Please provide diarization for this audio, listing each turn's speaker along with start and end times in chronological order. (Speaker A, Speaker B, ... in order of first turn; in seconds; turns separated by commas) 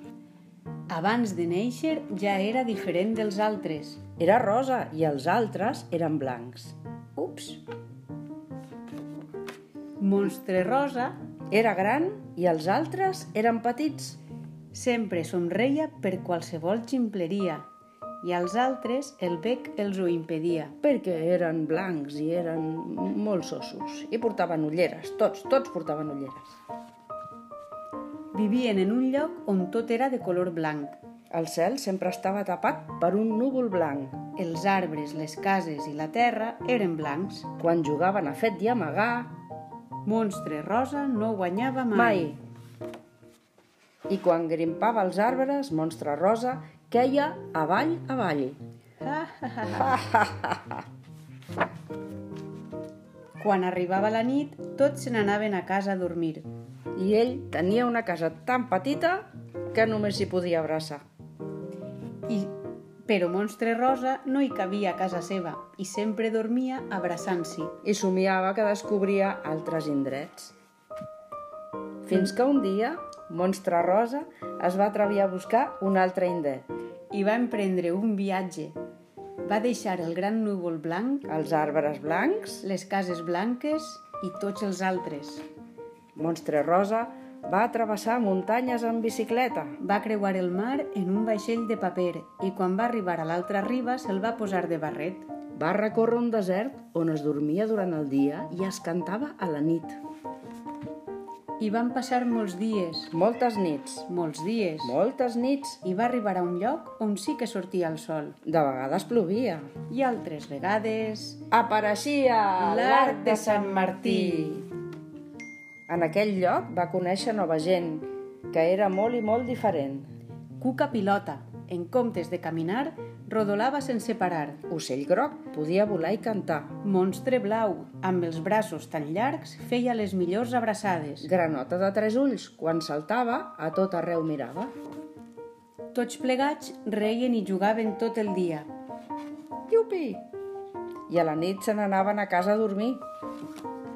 Speaker A: 0.9-4.0, Speaker B: 4.2-6.8, Speaker A: 7.2-7.6, Speaker A: 10.0-11.2, Speaker B: 11.5-14.2, Speaker A: 14.7-17.6, Speaker A: 18.2-20.8, Speaker B: 20.8-26.6, Speaker A: 28.3-31.0, Speaker B: 31.3-34.2, Speaker A: 34.4-37.5, Speaker B: 37.6-39.4, Speaker A: 40.0-42.4, Speaker B: 41.9-42.4, Speaker B: 44.1-48.6, Speaker A: 49.0-50.0, Speaker B: 49.8-50.8, Speaker A: 53.4-56.5, Speaker B: 56.9-61.0, Speaker A: 62.3-62.5, Speaker A: 63.0-67.7, Speaker B: 67.8-70.5, Speaker B: 72.0-76.7, Speaker A: 77.1-78.8, Speaker A: 79.4-81.2, Speaker B: 81.3-82.6, Speaker A: 82.6-85.4, Speaker B: 86.2-89.8, Speaker A: 89.8-95.3, Speaker B: 95.5-100.0, Speaker A: 101.6-103.1, Speaker B: 103.1-104.1, Speaker A: 104.1-105.0, Speaker B: 104.8-105.8, Speaker A: 105.8-108.4, Speaker B: 108.5-109.7, Speaker A: 109.9-111.4, Speaker B: 111.5-114.7, Speaker A: 112.6-114.6, Speaker B: 115.9-120.1, Speaker A: 120.6-124.6, Speaker B: 124.7-126.8, Speaker A: 126.8-131.3, Speaker B: 131.2-134.7, Speaker A: 135.9-138.7, Speaker B: 139.7-140.2, Speaker B: 141.1-143.0